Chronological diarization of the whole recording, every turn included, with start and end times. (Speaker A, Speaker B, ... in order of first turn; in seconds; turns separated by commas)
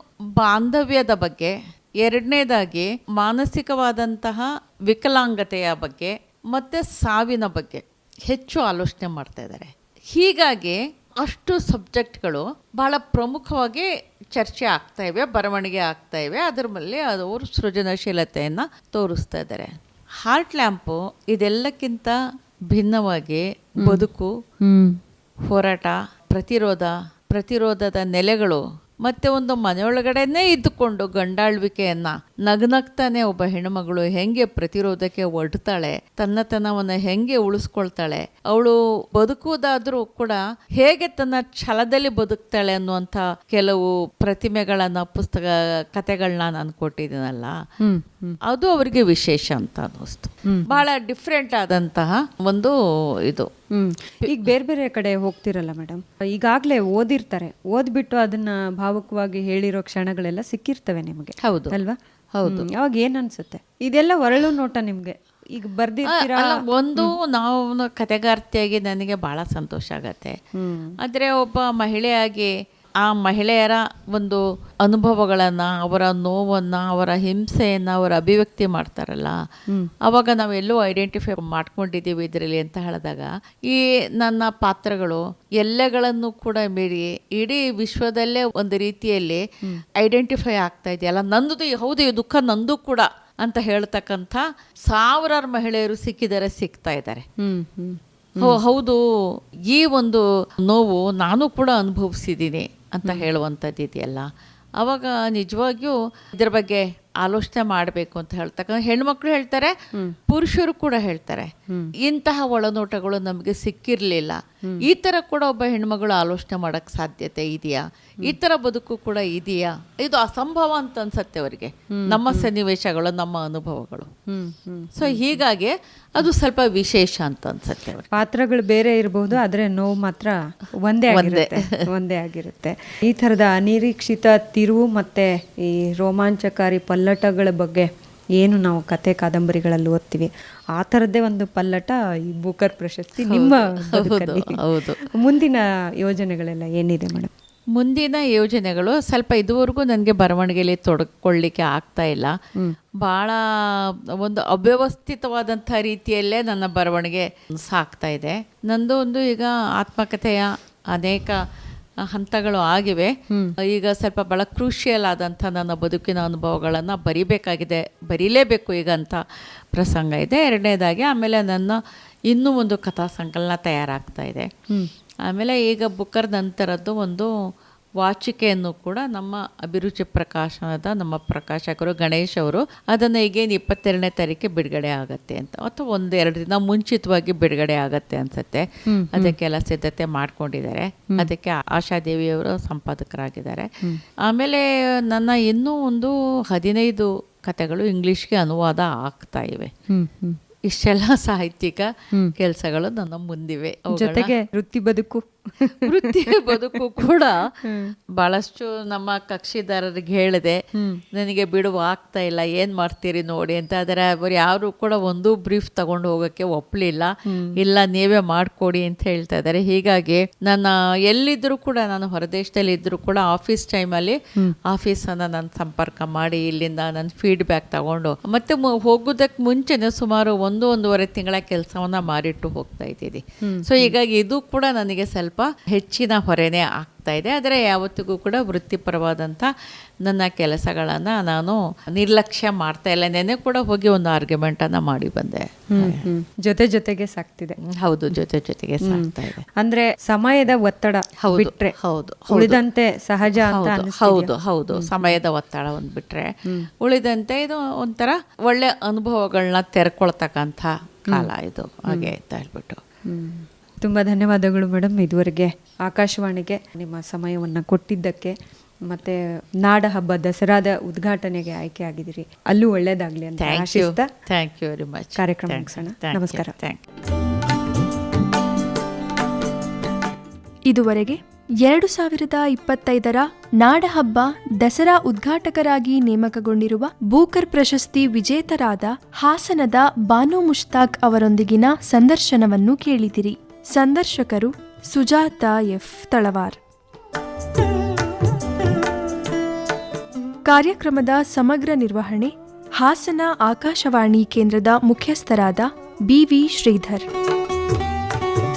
Speaker A: 0.4-22.2, Speaker A: 22.7-24.4, Speaker B: 23.8-24.1, Speaker B: 24.6-25.0, Speaker A: 25.5-47.6, Speaker B: 47.8-48.4, Speaker A: 48.4-53.5, Speaker B: 50.4-50.8, Speaker B: 53.7-67.1, Speaker A: 61.4-61.8, Speaker A: 62.3-62.7, Speaker A: 66.0-70.4, Speaker B: 70.5-70.9, Speaker A: 71.0-72.5, Speaker A: 73.0-79.4, Speaker A: 80.0-89.4, Speaker A: 90.0-97.2, Speaker B: 97.4-98.6, Speaker A: 98.4-104.3, Speaker A: 104.8-109.7, Speaker A: 110.3-124.1, Speaker B: 121.9-122.5, Speaker B: 124.3-125.4, Speaker A: 124.9-128.1, Speaker B: 128.1-147.3, Speaker A: 131.1-131.8, Speaker A: 143.2-145.1, Speaker A: 147.7-152.4, Speaker A: 153.0-161.4, Speaker A: 162.0-169.2, Speaker B: 163.3-163.5, Speaker A: 169.7-174.5, Speaker A: 175.2-177.3, Speaker A: 178.0-193.7, Speaker B: 188.9-189.3, Speaker A: 194.2-199.7, Speaker B: 199.9-200.4, Speaker A: 200.7-204.3, Speaker B: 203.9-206.8, Speaker A: 205.8-207.6, Speaker B: 207.6-207.9, Speaker A: 208.1-239.5, Speaker B: 210.7-211.0, Speaker B: 217.3-217.6, Speaker B: 233.4-233.9, Speaker A: 240.0-246.1, Speaker B: 245.7-247.6, Speaker A: 247.6-249.4, Speaker B: 248.8-251.7, Speaker A: 251.2-252.6, Speaker B: 252.3-255.1, Speaker A: 253.4-262.8, Speaker B: 263.1-274.1, Speaker A: 273.4-276.8, Speaker B: 275.2-276.5, Speaker C: 280.7-296.6, Speaker C: 300.4-307.1